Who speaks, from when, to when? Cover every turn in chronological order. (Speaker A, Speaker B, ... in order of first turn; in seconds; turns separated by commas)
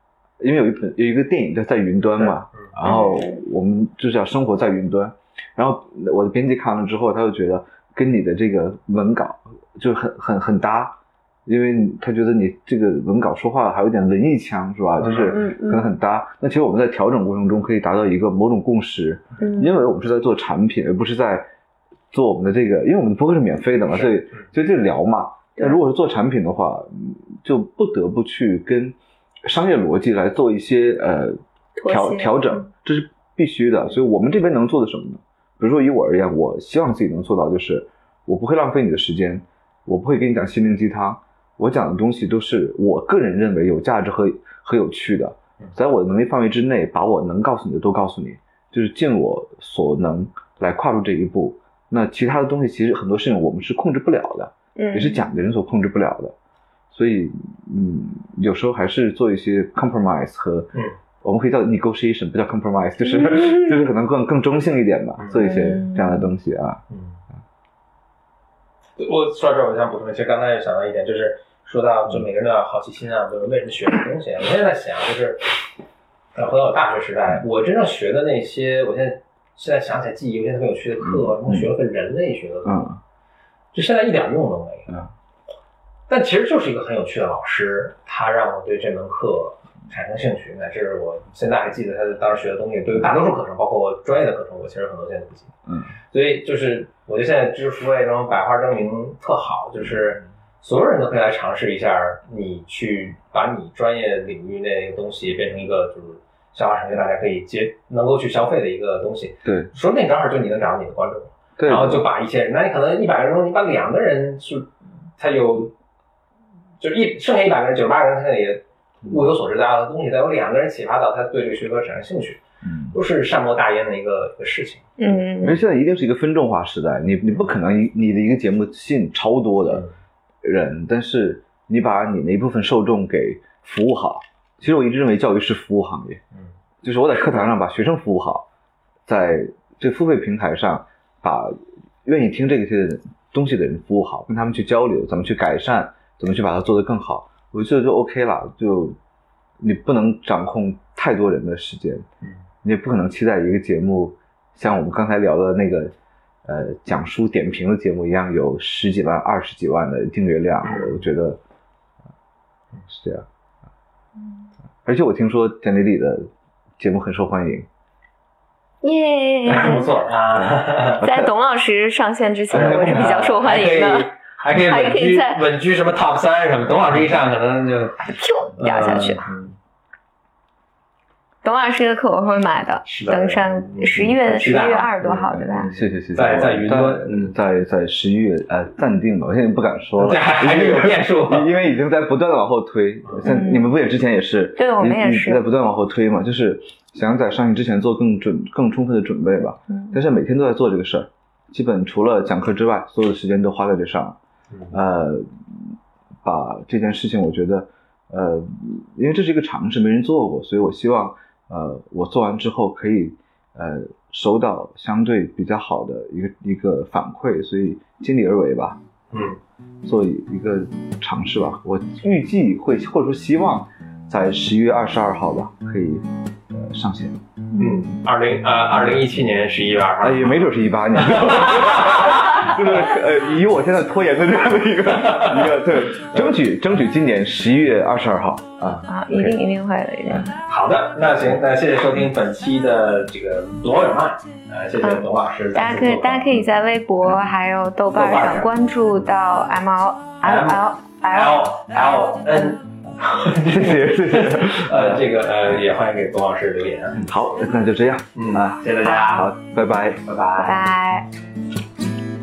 Speaker A: 0.4-21.5, Speaker B: 2.2-2.7, Speaker C: 2.8-3.4, Speaker B: 15.0-15.3, Speaker C: 15.3-15.9, Speaker C: 19.4-19.7, Speaker A: 22.1-56.3, Speaker C: 31.7-32.6, Speaker C: 54.8-55.2, Speaker A: 56.9-66.8, Speaker C: 63.1-63.7, Speaker B: 65.2-65.4, Speaker C: 65.4-66.3, Speaker B: 66.9-67.2, Speaker B: 69.0-75.5, Speaker B: 76.3-82.8, Speaker A: 81.0-81.7, Speaker A: 82.6-83.0, Speaker B: 83.7-85.0, Speaker B: 86.1-95.5, Speaker B: 96.1-115.7, Speaker A: 109.4-109.7, Speaker A: 111.6-112.0, Speaker B: 116.8-125.0, Speaker A: 122.6-123.0, Speaker C: 125.0-125.6, Speaker A: 125.4-129.8, Speaker A: 130.4-136.2, Speaker A: 136.8-138.5, Speaker A: 139.1-149.0, Speaker A: 149.6-152.0, Speaker A: 152.6-155.9, Speaker A: 156.4-161.4, Speaker B: 160.6-161.0, Speaker A: 162.9-163.3, Speaker A: 164.8-167.7, Speaker C: 168.8-170.0, Speaker B: 169.5-171.0, Speaker A: 169.5-169.8, Speaker A: 170.4-171.3, Speaker C: 170.9-175.4, Speaker A: 172.5-173.4, Speaker B: 172.5-178.0, Speaker C: 178.1-179.3, Speaker B: 178.6-179.5, Speaker C: 181.4-185.7, Speaker B: 182.8-184.9, Speaker A: 184.4-204.2, Speaker B: 186.1-187.3, Speaker B: 190.0-191.5, Speaker C: 193.2-193.7, Speaker C: 194.6-195.4, Speaker C: 199.7-200.0, Speaker B: 204.5-204.8, Speaker A: 204.7-218.8, Speaker B: 219.1-219.4, Speaker A: 219.8-227.2, Speaker B: 227.6-230.4, Speaker A: 230.0-239.4, Speaker B: 230.9-232.5, Speaker B: 234.8-236.3, Speaker C: 238.9-240.3, Speaker B: 240.4-246.4, Speaker C: 244.8-251.9, Speaker B: 247.9-248.5, Speaker B: 250.2-257.0, Speaker A: 253.4-255.0, Speaker A: 256.9-260.0, Speaker B: 258.1-259.3, Speaker B: 260.0-260.6, Speaker C: 260.4-261.1